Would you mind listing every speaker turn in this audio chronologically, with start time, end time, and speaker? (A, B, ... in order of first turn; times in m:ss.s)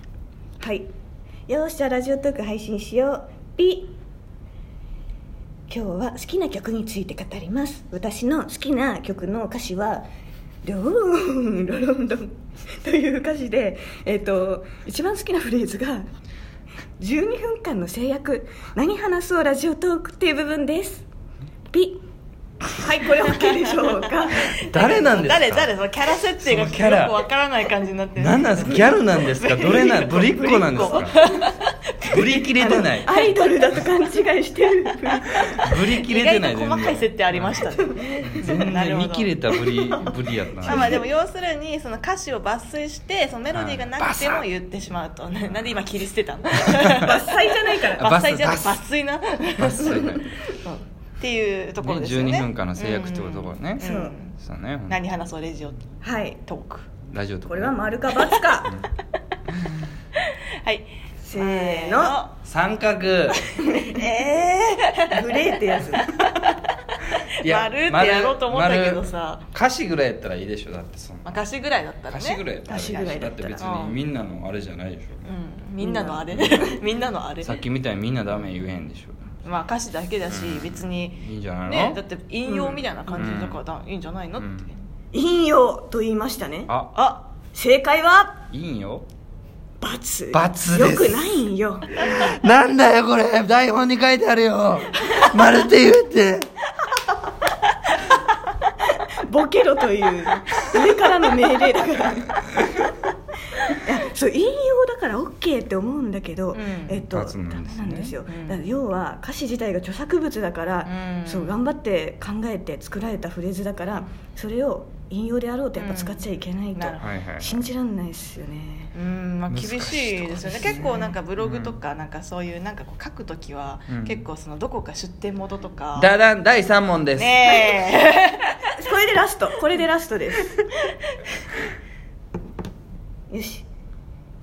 0:00.6-0:00.9 A
0:01.5-0:03.9 A
0:05.7-0:10.0 A
0:10.6-0:12.3 A
0:12.8-0:16.0 A
0:17.0-0:21.0 A
0:21.7-0:22.0 A
0:22.7-0:24.5 A
0:24.5-0:25.7 B
0:24.7-0:32.4 C
0:26.4-0:27.2 B
0:28.2-0:31.2 B
0:30.1-0:31.3 A
0:32.0-0:33.1 B
0:32.6-0:35.7 A
0:33.1-0:33.8 C
0:35.6-0:37.6 B
0:36.0-0:39.4 C
0:37.9-0:38.4 A
0:38.3-0:41.0 B
0:39.5-0:40.1 A
0:40.6-0:47.3 C
0:40.6-0:41.0 A
0:43.5-0:44.5 B
0:46.9-0:48.1 A
0:48.0-0:48.8 B
0:48.0-0:54.4 C
0:49.6-0:50.3 B
0:49.9-0:50.3 A
0:51.8-0:53.8 B
0:53.8-0:54.1 A
0:54.4-0:55.0 B
0:54.9-0:56.9 C
0:56.0-0:56.4 A
0:57.1-0:57.8 B
0:57.5-0:58.8 A
1:00.6-1:02.4 C
1:01.2-1:02.2 A
1:02.4-1:03.4 B
1:03.5-1:06.6 C
1:03.6-1:04.0 A
1:05.1-1:06.1 A
1:07.4-1:09.4 C
1:07.4-1:11.4 B
1:11.2-1:13.0 C
1:12.1-1:15.2 B
1:12.7-1:13.7 A
1:13.6-1:14.0 C
1:15.2-1:17.6 C
1:15.8-1:16.8 A
1:17.4-1:19.2 B
1:19.4-1:24.6 C
1:20.3-1:22.0 B
1:22.5-1:23.2 A
1:23.2-1:23.6 B
1:24.4-1:24.7 B
1:25.1-1:26.7 A
1:26.7-1:26.9 B
1:27.0-1:27.3 C
1:27.5-1:28.4 A
1:28.5-1:29.0 B
1:29.8-1:32.0 A
1:30.3-1:31.3 B
1:31.9-1:36.5 B
1:39.3-1:42.8 A
1:43.6-1:58.9 A
1:46.5-1:47.0 C
1:47.1-1:48.2 B
1:48.3-1:48.6 C
1:50.9-1:51.6 C
1:55.8-1:56.2 C
1:56.8-1:57.1 C
1:57.0-1:57.6 B
1:58.9-2:06.1 C
1:59.5-2:01.8 B
2:03.9-2:04.2 B
2:06.0-2:07.7 B
2:07.2-2:08.6 C
2:08.7-2:10.6 A
2:13.3-2:13.7 A